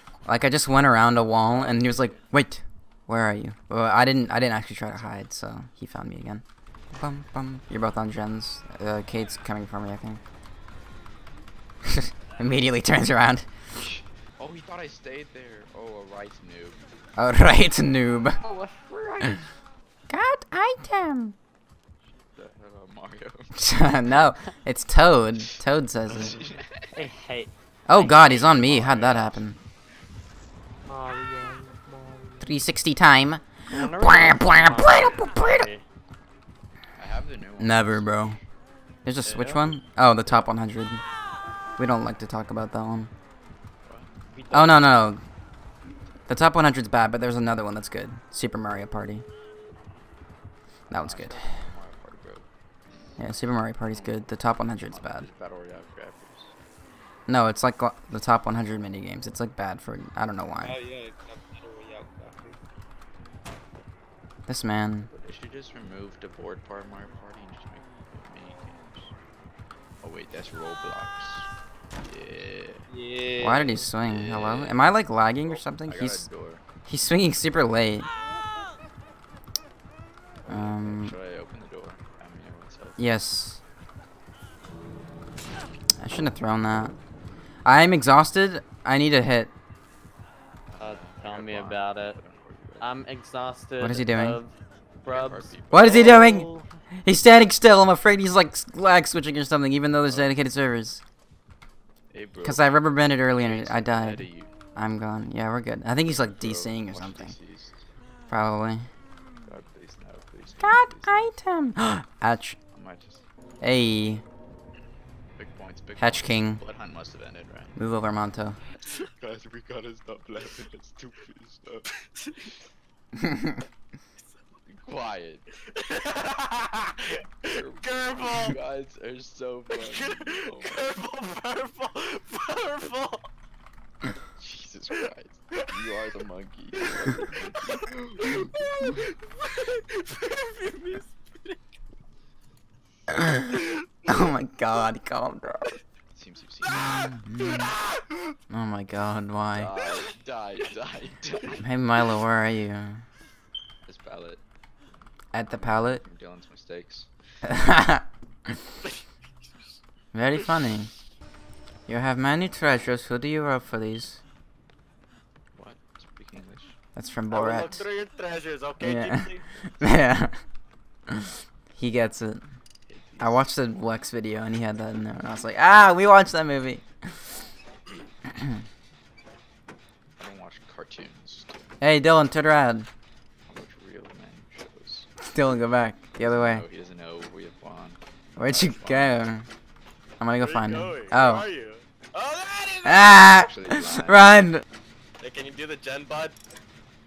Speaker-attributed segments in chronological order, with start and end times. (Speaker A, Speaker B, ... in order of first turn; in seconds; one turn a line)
Speaker A: 0.2-10.2
Speaker B: 1.4-2.2
Speaker A: 11.8-13.5
Speaker B: 13.8-16.8
Speaker A: 17.1-18.4
Speaker B: 18.4-19.3
Speaker C: 18.9-19.1
Speaker A: 20.1-21.3
Speaker B: 22.1-23.6
Speaker A: 23.5-26.4
Speaker B: 26.1-27.1
Speaker C: 26.9-28.7
Speaker A: 27.9-29.6
Speaker B: 28.3-29.4
Speaker D: 30.9-32.5
Speaker A: 32.4-35.7
Speaker C: 33.7-35.8
Speaker B: 37.0-38.4
Speaker A: 37.6-38.4
Speaker A: 39.0-41.0
Speaker C: 39.2-39.7
Speaker A: 41.8-43.1
Speaker B: 43.8-44.1
Speaker D: 44.3-45.0
Speaker A: 44.5-45.2
Speaker A: 46.3-49.2
Speaker B: 50.9-53.0
Speaker A: 50.9-51.6
Speaker A: 53.2-55.3
Speaker B: 53.9-56.5
Speaker A: 57.3-60.8
Speaker D: 60.6-62.6
Speaker A: 64.5-65.1
Speaker B: 65.1-69.1
Speaker B: 70.0-71.5
Speaker B: 72.0-72.8
Speaker D: 72.9-73.9
Speaker A: 73.4-76.3
Speaker B: 74.0-74.9
Speaker B: 75.4-76.6
Speaker A: 76.8-78.1
Speaker B: 80.4-83.0
Speaker A: 80.5-81.1
Speaker A: 83.0-83.6
Speaker A: 86.0-87.0
Speaker A: 87.6-89.5
Speaker B: 90.7-92.9
Speaker C: 90.8-92.2
Speaker C: 92.8-96.7
Speaker A: 93.8-94.4
Speaker B: 95.1-96.3
Speaker A: 95.7-96.5
Speaker A: 97.0-101.0
Speaker B: 100.1-100.3
Speaker B: 102.1-104.5
Speaker A: 102.4-107.3
Speaker B: 106.1-107.8
Speaker A: 108.3-108.9
Speaker B: 109.5-111.3
Speaker A: 110.6-112.6
Speaker B: 112.7-113.2
Speaker A: 113.6-114.2
Speaker B: 115.4-117.7
Speaker A: 116.0-116.6
Speaker A: 117.8-118.6
Speaker B: 119.1-121.8
Speaker E: 122.0-122.5
Speaker A: 123.2-123.6
Speaker B: 124.6-125.4
Speaker E: 125.7-128.6
Speaker B: 127.4-130.9
Speaker E: 129.7-133.3
Speaker B: 134.4-138.7
Speaker E: 136.9-141.6
Speaker A: 143.1-143.5
Speaker A: 144.1-145.8
Speaker B: 146.1-147.0
Speaker E: 146.6-148.0
Speaker A: 146.7-147.8
Speaker A: 148.5-149.7
Speaker B: 149.5-151.7
Speaker A: 151.6-153.1
Speaker B: 153.8-154.4
Speaker A: 155.3-156.0
Speaker B: 155.5-157.1
Speaker A: 157.4-158.6
Speaker A: 160.1-160.9
Speaker A: 161.9-164.2
Speaker B: 165.5-166.8
Speaker A: 166.9-167.9
Speaker E: 167.3-169.4
Speaker A: 168.8-170.4
Speaker A: 171.1-172.5
Speaker B: 172.9-173.5
Speaker A: 173.2-177.4
Speaker B: 180.2-181.7
Speaker A: 181.8-182.9
Speaker B: 183.5-185.1
Speaker A: 185.2-186.6
Speaker B: 186.2-189.3
Speaker A: 188.3-189.5
Speaker A: 190.2-191.5
Speaker E: 190.4-193.2
Speaker A: 192.8-194.6
Speaker B: 193.2-194.5
Speaker E: 195.2-196.3